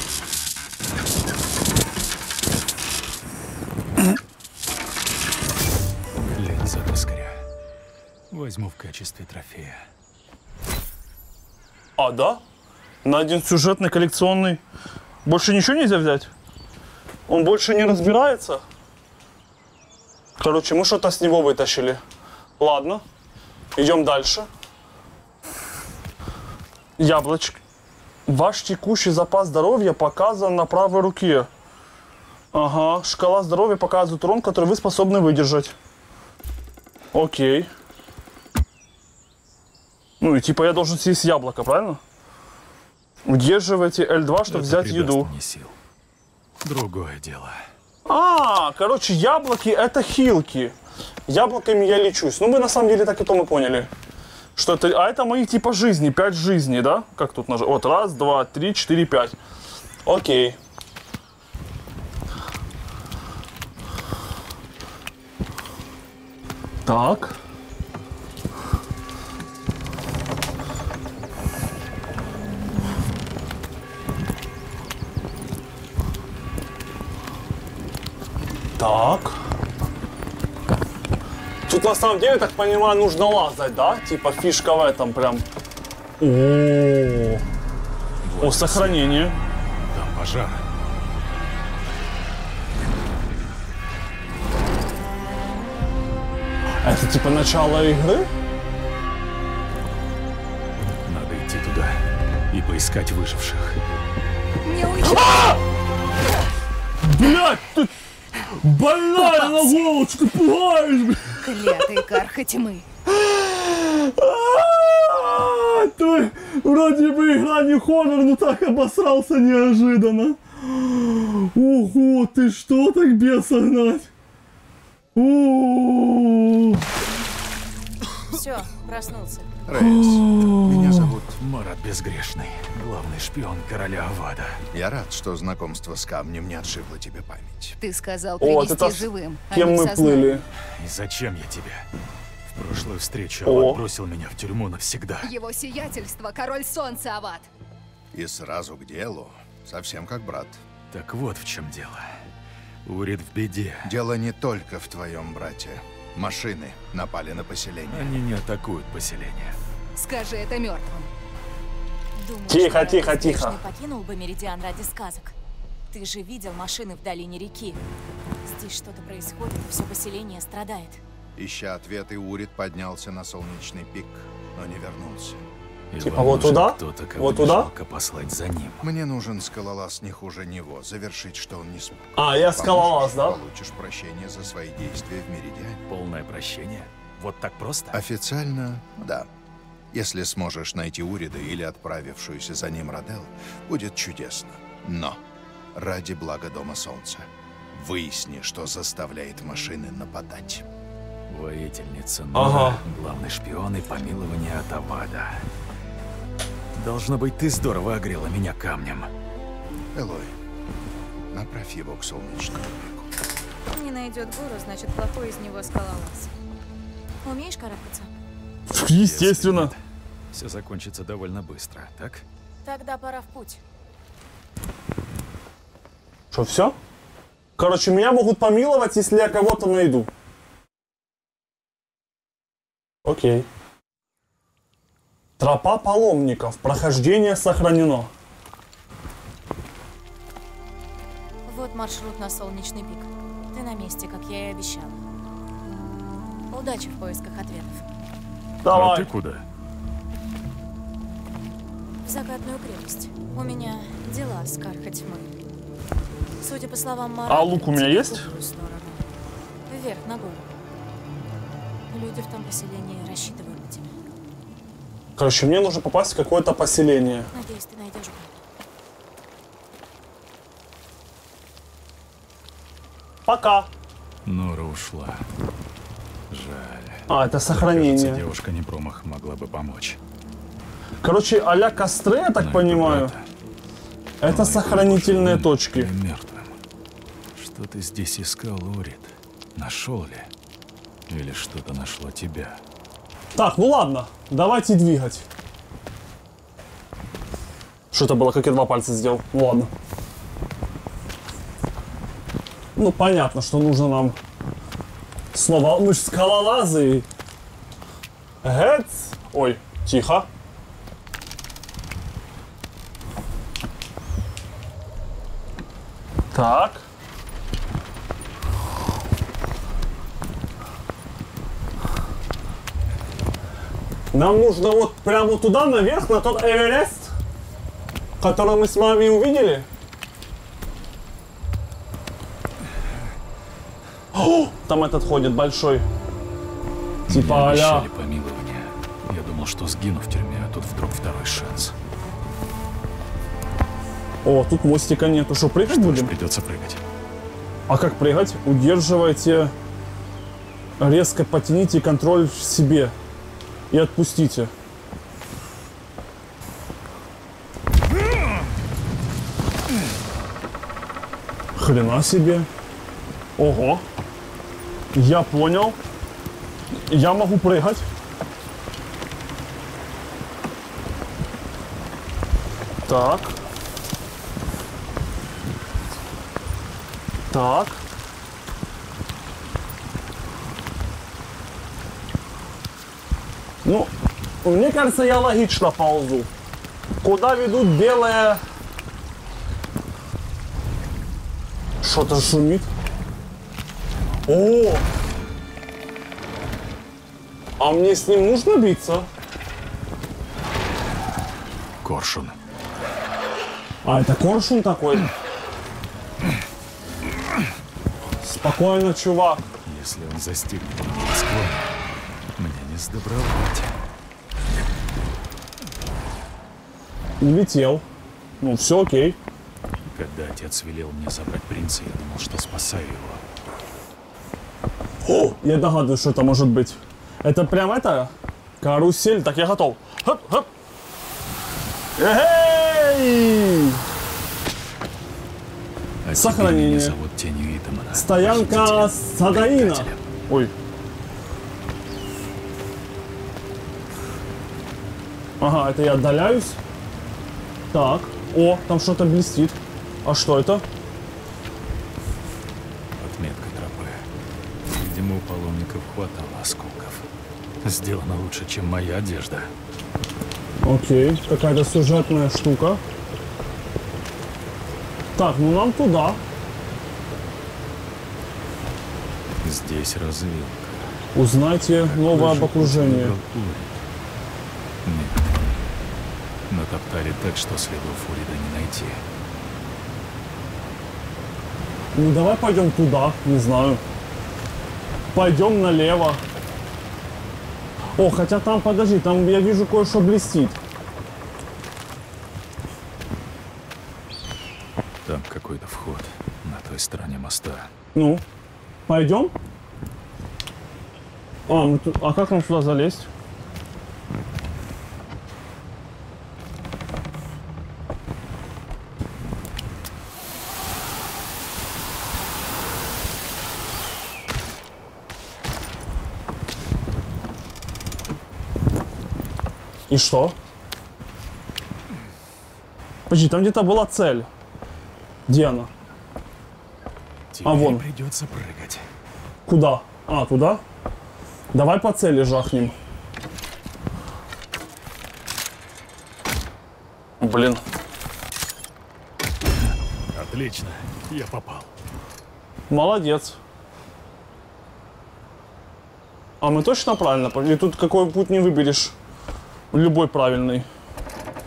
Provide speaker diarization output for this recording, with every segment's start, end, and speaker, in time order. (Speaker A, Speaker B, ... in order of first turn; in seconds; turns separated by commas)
Speaker A: 6.2-7.4, Speaker A: 8.3-9.8, Speaker B: 12.0-12.4, Speaker B: 13.0-14.6, Speaker B: 15.2-16.3, Speaker B: 17.3-18.6, Speaker B: 20.4-22.0, Speaker B: 22.6-23.0, Speaker B: 23.8-24.5, Speaker B: 27.0-27.6, Speaker B: 28.3-31.5, Speaker B: 32.5-35.7, Speaker B: 37.1-37.7, Speaker B: 40.2-42.0, Speaker B: 43.2-45.3, Speaker A: 44.5-45.7, Speaker A: 46.6-47.6, Speaker B: 48.0-50.7, Speaker B: 51.3-53.9, Speaker B: 54.5-59.4, Speaker B: 60.0-60.6, Speaker B: 66.8-67.4, Speaker B: 78.8-79.3, Speaker B: 81.7-85.4, Speaker B: 86.2-87.4, Speaker A: 88.2-90.7, Speaker B: 88.4-89.3, Speaker B: 96.8-98.3, Speaker A: 101.0-103.8, Speaker C: 104.6-105.5, Speaker B: 107.0-107.9, Speaker B: 108.5-111.4, Speaker C: 111.4-112.9, Speaker B: 113.1-124.1, Speaker B: 125.2-126.8, Speaker D: 128.3-129.7, Speaker E: 129.7-131.4, Speaker B: 129.8-131.0, Speaker A: 131.4-134.6, Speaker E: 134.7-137.8, Speaker C: 137.8-140.4, Speaker B: 138.4-140.4, Speaker A: 140.8-141.8, Speaker A: 142.5-145.3, Speaker B: 143.4-143.8, Speaker C: 145.2-147.5, Speaker E: 148.1-150.6, Speaker A: 150.9-152.2, Speaker A: 152.8-153.9, Speaker E: 153.8-158.1, Speaker A: 157.9-159.6, Speaker C: 160.0-161.1, Speaker D: 162.2-165.3, Speaker B: 162.5-163.6, Speaker D: 165.9-167.8, Speaker D: 168.4-171.0, Speaker E: 171.4-175.4, Speaker A: 175.9-178.8, Speaker B: 176.0-177.7, Speaker E: 178.8-185.8, Speaker B: 182.2-183.4, Speaker A: 185.9-188.0, Speaker E: 187.9-189.3, Speaker E: 189.9-195.2, Speaker E: 195.7-200.7, Speaker A: 201.3-205.4, Speaker B: 202.3-202.8, Speaker A: 206.7-209.1, Speaker E: 209.9-210.3, Speaker E: 211.3-213.0, Speaker D: 213.7-216.3, Speaker D: 217.2-218.1, Speaker B: 218.7-219.7, Speaker A: 218.7-219.8, Speaker A: 220.3-222.2, Speaker D: 222.6-223.6, Speaker B: 226.3-226.7, Speaker B: 227.6-230.1, Speaker B: 233.1-233.5, Speaker B: 235.4-238.1, Speaker D: 241.4-245.0, Speaker D: 246.5-247.9, Speaker B: 248.6-249.1, Speaker A: 248.7-249.4, Speaker D: 252.0-255.3, Speaker D: 256.4-259.0, Speaker B: 257.3-258.2, Speaker D: 259.7-260.4, Speaker D: 261.9-263.9, Speaker B: 265.1-267.3, Speaker D: 267.3-268.3, Speaker B: 273.2-273.7, Speaker A: 274.2-275.2, Speaker A: 276.3-280.0, Speaker B: 277.1-278.2, Speaker B: 281.0-283.1, Speaker A: 282.4-283.2, Speaker B: 284.2-285.9, Speaker A: 284.2-286.6, Speaker A: 287.3-290.3, Speaker A: 291.1-292.6, Speaker B: 293.3-295.2, Speaker B: 297.9-299.7, Speaker B: 302.8-304.2, Speaker B: 305.3-307.1, Speaker B: 308.4-310.3, Speaker B: 316.3-316.8, Speaker B: 324.1-327.1, Speaker B: 328.2-329.7, Speaker B: 334.1-335.8, Speaker B: 337.1-337.9, Speaker A: 337.1-341.7, Speaker B: 344.2-346.1, Speaker A: 345.6-346.8, Speaker B: 347.7-349.5, Speaker B: 350.8-352.9, Speaker B: 353.7-354.5, Speaker B: 361.6-362.5, Speaker B: 363.4-363.8, Speaker B: 364.9-365.8, Speaker B: 366.9-367.8, Speaker B: 372.9-373.3, Speaker B: 377.3-377.8, Speaker B: 383.6-383.9, Speaker B: 384.4-386.3, Speaker B: 387.0-388.4, Speaker B: 391.8-392.7, Speaker B: 394.3-394.8, Speaker B: 397.6-399.1, Speaker A: 401.8-402.4, Speaker B: 403.8-405.1, Speaker B: 408.2-409.4, Speaker A: 409.6-411.7, Speaker A: 412.4-413.8, Speaker B: 417.2-417.8, Speaker B: 418.4-419.2, Speaker A: 419.9-423.2, Speaker B: 425.0-430.5, Speaker B: 432.0-433.8, Speaker A: 436.0-440.1, Speaker B: 436.1-436.9, Speaker B: 437.9-440.5, Speaker B: 445.4-446.6, Speaker B: 447.7-450.6, Speaker A: 453.0-454.0, Speaker A: 454.7-457.1, Speaker A: 457.6-459.5, Speaker B: 460.6-462.8, Speaker B: 465.1-466.2, Speaker A: 469.4-470.9, Speaker B: 471.1-473.1, Speaker A: 471.8-473.8, Speaker A: 474.8-475.6, Speaker A: 476.5-479.0, Speaker B: 481.9-483.8, Speaker B: 485.1-486.2, Speaker B: 488.0-490.6, Speaker A: 495.0-497.7, Speaker B: 497.9-498.2, Speaker B: 498.9-499.3, Speaker B: 501.5-503.1, Speaker B: 519.9-520.4, Speaker B: 523.1-524.3, Speaker B: 525.3-525.7, Speaker A: 527.3-528.8, Speaker B: 527.4-527.9, Speaker B: 529.5-530.6, Speaker B: 531.5-532.7, Speaker B: 537.2-537.6, Speaker A: 539.6-541.7, Speaker B: 542.7-543.4, Speaker B: 546.4-548.9, Speaker B: 549.7-550.7